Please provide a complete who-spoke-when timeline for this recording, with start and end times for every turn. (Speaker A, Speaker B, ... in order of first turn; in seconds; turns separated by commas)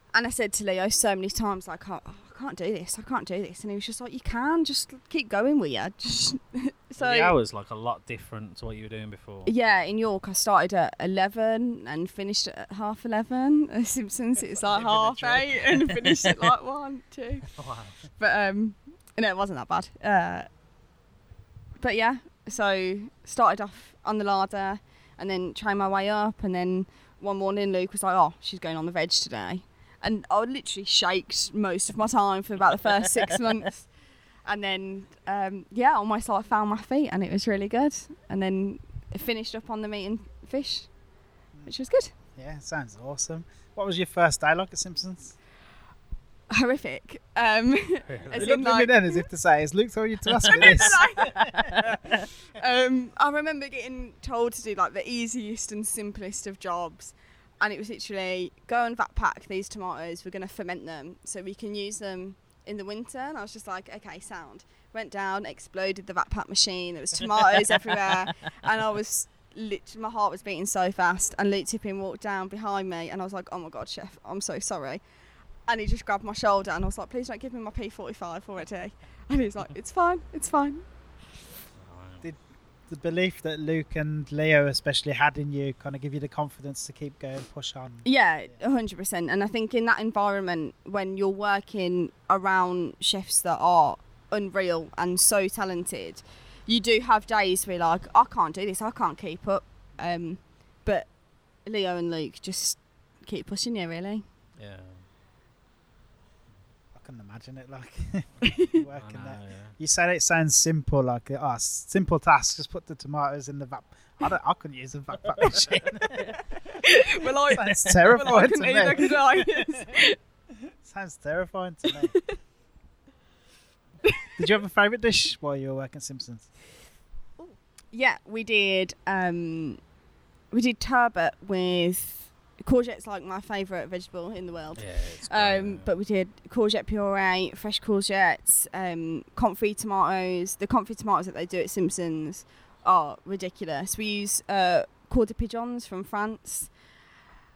Speaker A: 0.1-7.3, Speaker B: 7.0-9.5, Speaker A: 9.4-17.5, Speaker B: 14.7-16.5, Speaker B: 17.6-18.0, Speaker A: 18.1-20.5, Speaker A: 21.8-33.9, Speaker A: 34.4-40.9, Speaker A: 41.7-42.1, Speaker C: 42.4-45.4, Speaker A: 46.5-49.2, Speaker B: 48.1-48.5, Speaker C: 48.4-51.8, Speaker B: 50.4-52.3, Speaker A: 50.5-51.9, Speaker A: 52.5-75.0, Speaker A: 75.7-80.8, Speaker B: 81.8-82.2, Speaker C: 82.2-88.1, Speaker A: 88.0-101.1, Speaker A: 101.6-104.2, Speaker B: 104.6-105.1, Speaker C: 106.9-116.4, Speaker A: 108.4-108.8, Speaker B: 108.9-109.7, Speaker B: 115.4-116.4, Speaker A: 116.8-120.2, Speaker C: 117.2-119.9, Speaker C: 120.7-122.2, Speaker C: 124.4-126.5, Speaker A: 127.4-129.8, Speaker A: 130.5-146.7, Speaker B: 134.8-135.9